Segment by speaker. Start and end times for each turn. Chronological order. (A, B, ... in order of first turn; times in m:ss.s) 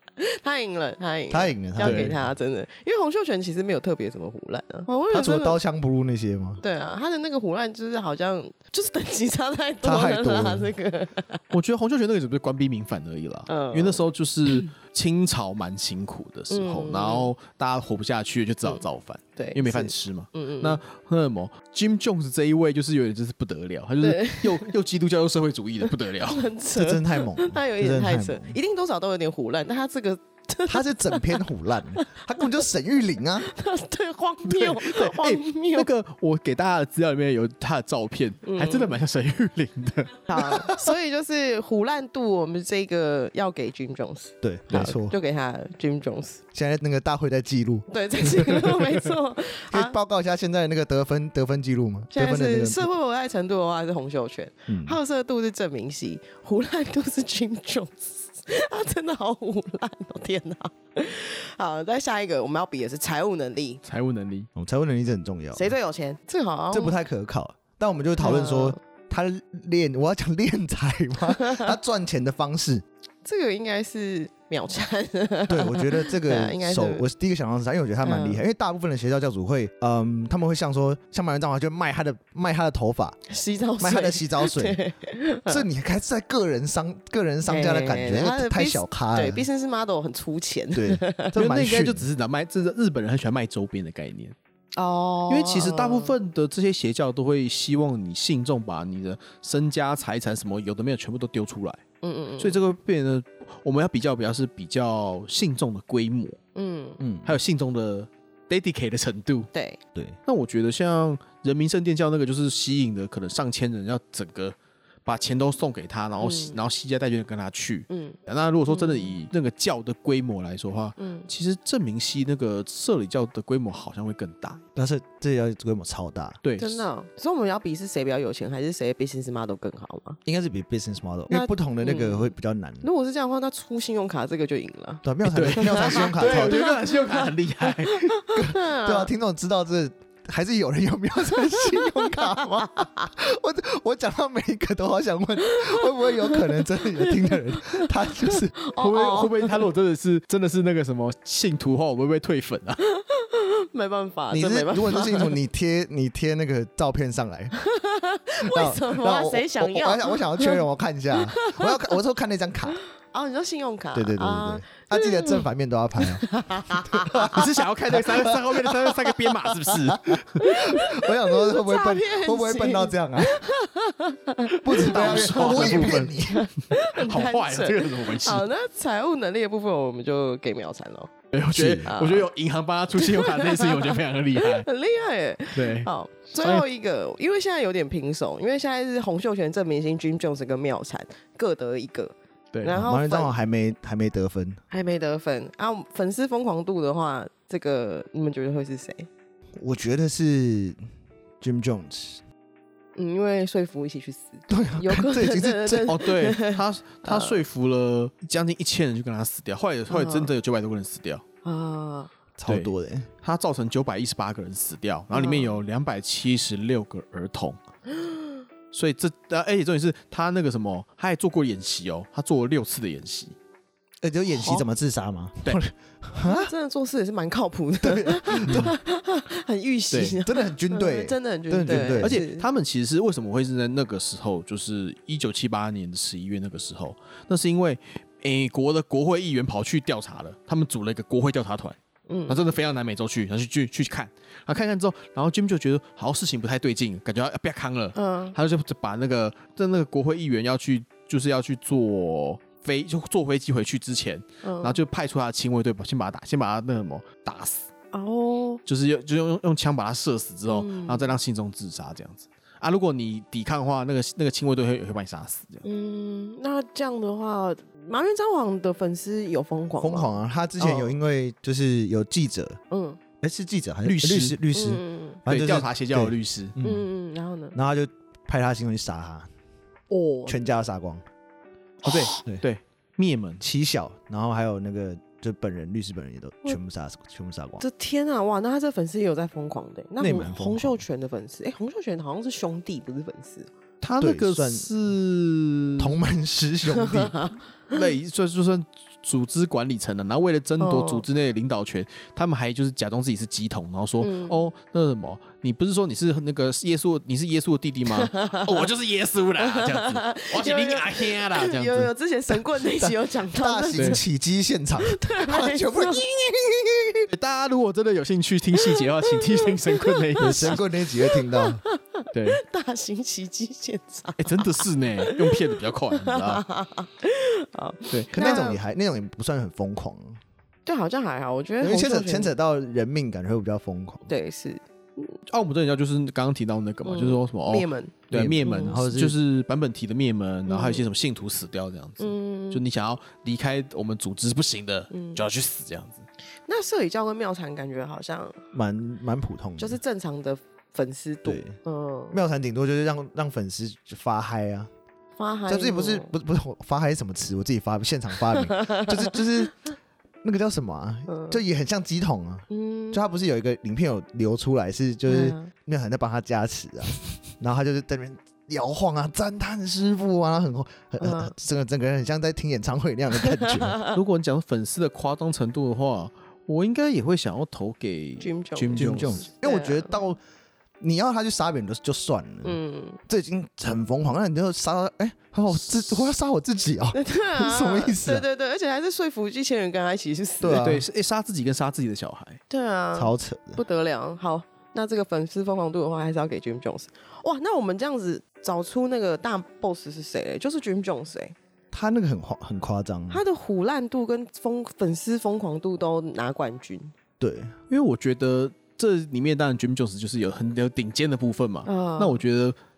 0:00.2-0:05.6 A
0:01.3-0:02.2 B
0:01.8-0:02.2 C
0:05.1-0:06.6 B
0:06.6-0:11.5 A
0:09.8-0:10.7 B
0:11.5-0:26.5 C
0:13.5-0:14.6 A
0:16.5-0:17.3 A
0:19.4-0:20.8 A
0:24.0-0:24.7 A
0:26.2-0:32.6 A
0:26.8-0:28.6 B
0:30.7-0:33.5 B
0:33.4-0:35.9 A
0:34.4-0:40.7 C
0:38.5-0:39.0 A
0:40.3-0:46.4 A
0:40.6-0:40.9 B
0:44.4-0:45.2 B
0:46.5-0:48.8 B
0:47.9-0:50.0 A
0:49.7-0:52.9 B
0:52.1-1:03.8 A
0:54.7-0:55.0 B
1:03.8-1:04.5 C
1:04.6-1:05.7 B
1:05.5-1:07.0 A
1:06.7-1:12.8 B
1:08.2-1:08.8 A
1:11.4-1:11.7 A
1:13.2-1:17.1 A
1:15.5-1:23.2 B
1:18.0-1:18.4 A
1:23.3-1:25.6 A
1:23.8-1:24.8 B
1:25.5-1:29.5 B
1:27.4-1:31.4 A
1:30.7-1:32.0 B
1:31.3-1:34.4 C
1:34.8-1:36.2 A
1:35.3-1:41.8 C
1:42.0-1:42.6 A
1:42.4-1:46.4 C
1:46.6-1:47.0 A
1:47.0-1:47.4 B
1:47.2-1:49.5 C
1:49.5-1:49.8 A
1:50.3-2:04.6 C
1:56.2-1:56.6 A
1:57.9-1:59.2 A
2:01.0-2:01.3 A
2:04.8-2:06.4 B
2:06.4-2:06.8 C
2:06.6-2:10.2 A
2:10.3-2:12.9 B
2:11.3-2:19.1 A
2:15.0-2:16.7 B
2:15.3-2:18.2 C
2:18.4-2:28.5 B
2:21.5-2:23.1 A
2:25.4-2:29.6 A
2:28.8-2:32.8 C
2:32.9-2:35.4 A
2:34.3-2:37.5 B
2:37.6-2:40.6 A
2:38.4-2:42.8 B
2:41.2-2:41.9 A
2:43.0-2:45.4 A
2:43.9-2:46.3 B
2:46.0-2:47.5 A
2:46.8-2:53.4 B
2:47.3-2:50.5 C
2:50.4-3:01.2 A
2:54.6-2:56.5 B
2:54.7-2:58.5 C
3:01.3-3:04.7 C
3:01.6-3:01.9 B
3:01.8-3:02.3 A
3:03.0-3:13.3 A
3:05.6-3:05.9 C
3:12.7-3:14.6 B
3:14.7-3:19.1 A
3:19.6-3:20.8 B
3:21.4-3:22.2 B
3:23.0-3:27.4 A
3:24.5-3:26.0 B
3:25.9-3:31.2 C
3:29.9-3:30.3 A
3:31.4-3:32.1 A
3:32.4-3:33.1 B
3:33.2-3:37.6 C
3:35.1-3:35.6 A
3:37.9-3:38.4 A
3:38.7-3:43.4 C
3:44.0-3:46.5 B
3:44.3-3:44.6 A
3:46.2-3:52.5 A
3:47.8-3:48.8 B
3:49.9-3:50.2 C
3:50.2-3:52.2 B
3:52.0-4:01.8 C
4:02.1-4:02.4 A
4:02.3-4:17.7 C
4:08.0-4:08.4 A
4:14.4-4:14.8 A
4:17.9-4:18.6 A
4:18.7-4:25.6 C
4:20.5-4:21.2 A
4:25.6-4:30.9 A
4:29.8-4:32.6 B
4:32.7-4:33.0 A
4:33.2-4:36.9 B
4:33.8-4:34.4 C
4:34.5-4:35.2 A
4:35.3-4:36.6 C
4:36.6-4:37.6 A
4:37.5-4:39.3 B
4:39.9-4:40.4 A
4:40.3-4:41.0 B
4:41.8-4:43.4 C
4:43.4-4:47.6 B
4:47.6-4:53.5 A
4:50.0-4:50.8 B
4:53.8-4:56.0 C
4:54.0-4:54.7 B
4:55.8-4:57.2 B
4:56.8-4:57.8 A
4:57.7-5:11.9 C
5:00.6-5:01.0 A
5:04.0-5:04.5 A
5:08.0-5:08.6 A
5:09.4-5:14.0 A
5:13.3-5:17.1 B
5:14.8-5:16.0 A
5:17.1-5:20.6 C
5:18.7-5:25.4 A
5:20.2-5:21.6 B
5:22.1-5:22.4 C
5:24.2-5:26.4 C
5:25.9-5:28.6 A
5:27.9-5:28.4 C
5:28.1-5:30.2 B
5:30.7-5:32.4 A
5:31.6-5:34.1 B
5:34.1-5:35.2 A
5:35.3-5:46.1 C
5:36.8-5:38.8 A
5:38.1-5:39.2 B
5:40.5-5:40.8 A
5:42.0-5:42.6 A
5:44.9-5:45.2 A
5:46.5-5:48.4 A
5:48.5-5:49.8 B
5:49.6-5:52.2 A
5:51.2-5:51.6 B
5:52.1-5:54.7 B
5:55.2-5:56.2 A
5:55.5-5:59.6 B
5:58.4-5:59.5 A
6:00.2-6:13.8 B
6:01.1-6:01.4 A
6:02.5-6:03.0 A
6:05.1-6:05.5 A
6:11.0-6:11.3 A
6:13.3-6:13.9 A
6:13.9-6:19.2 C
6:18.2-6:20.0 A
6:18.8-6:20.2 B
6:20.8-6:28.2 B
6:22.4-6:23.0 A
6:25.6-6:26.1 C
6:26.9-6:30.7 A
6:30.4-6:30.8 B
6:30.6-6:32.4 C
6:32.5-6:41.4 A
6:32.9-6:33.6 B
6:41.7-6:43.2 B
6:43.1-6:46.9 A
6:47.2-6:47.5 B
6:47.7-6:52.6 C
6:51.6-6:52.2 A